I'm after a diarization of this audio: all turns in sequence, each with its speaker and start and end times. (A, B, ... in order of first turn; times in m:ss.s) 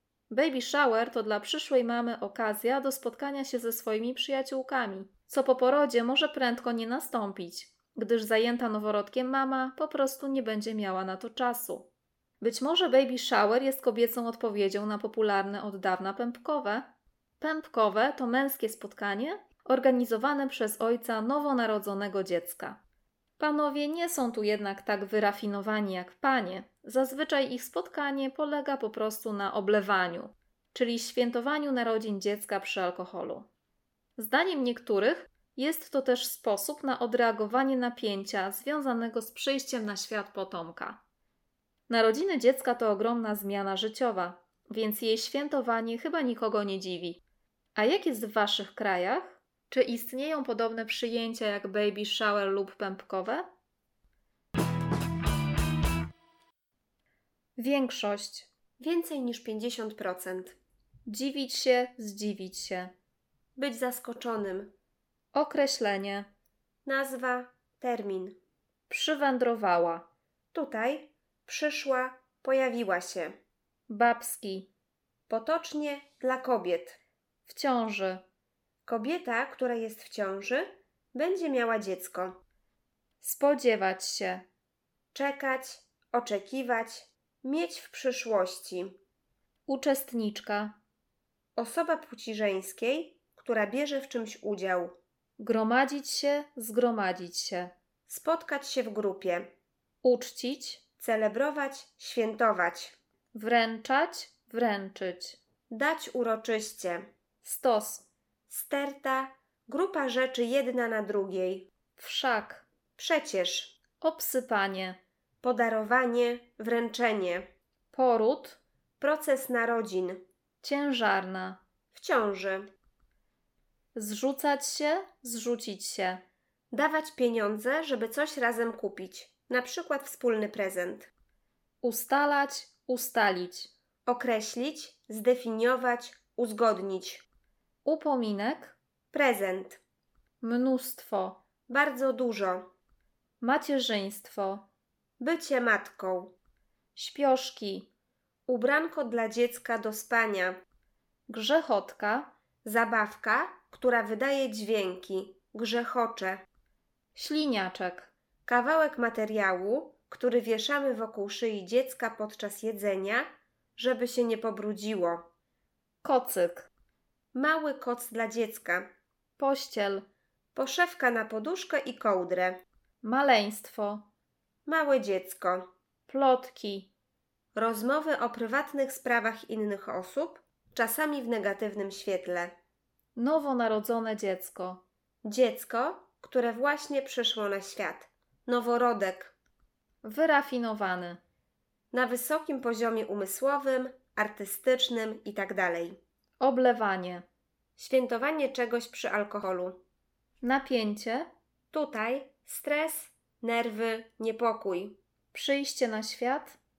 0:00.3-0:11.9 A
0:12.4-0:22.8 A
0:23.4-0:33.5 A
0:34.2-0:41.0 A
0:41.9-0:47.2 A
0:47.8-0:53.5 A
0:57.6-0:58.5 A
0:58.8-1:00.6 B
1:01.1-1:02.9 A
1:03.6-1:04.7 B
1:05.3-1:06.3 A
1:06.9-1:08.4 B
1:08.9-1:10.1 A
1:10.5-1:13.4 B
1:13.9-1:14.7 A
1:15.3-1:17.0 B
1:17.5-1:18.2 A
1:18.8-1:22.4 B
1:23.2-1:24.4 A
1:25.1-1:29.0 B
1:29.7-1:30.8 A
1:31.6-1:35.0 B
1:35.4-1:37.7 A
1:38.1-1:39.5 B
1:40.0-1:40.8 A
1:41.0-1:43.0 B
1:43.3-1:45.4 A
1:45.7-1:47.1 B
1:47.4-1:48.1 A
1:48.5-1:51.7 B
1:52.0-1:52.6 A
1:53.0-1:53.8 B
1:54.0-1:55.0 A
1:55.4-1:57.5 B
1:57.9-1:58.6 A
1:59.0-2:00.2 B
2:00.6-2:01.6 A
2:01.9-2:02.7 B
2:04.0-2:06.2 A
2:06.7-2:11.1 B
2:11.8-2:13.7 A
2:14.1-2:17.2 B
2:17.8-2:18.8 A
2:19.1-2:19.8 B
2:20.4-2:21.4 A
2:21.7-2:22.7 B
2:23.4-2:24.6 A
2:25.2-2:26.4 B
2:27.0-2:27.9 A
2:28.5-2:30.6 B
2:31.3-2:32.3 A
2:32.6-2:36.4 B
2:37.2-2:38.1 A
2:38.5-2:45.3 B
2:46.0-2:46.7 A
2:47.3-2:48.9 B
2:49.4-2:50.0 A
2:50.5-2:52.6 B
2:53.0-2:54.1 A
2:54.7-2:55.7 B
2:56.1-2:56.9 A
2:57.6-3:02.5 B
3:03.2-3:04.8 A
3:05.2-3:09.4 B
3:10.0-3:11.2 A
3:11.9-3:16.0 B
3:16.4-3:17.2 A
3:17.8-3:19.8 B
3:20.4-3:21.3 A
3:21.7-3:25.0 B
3:25.3-3:26.6 A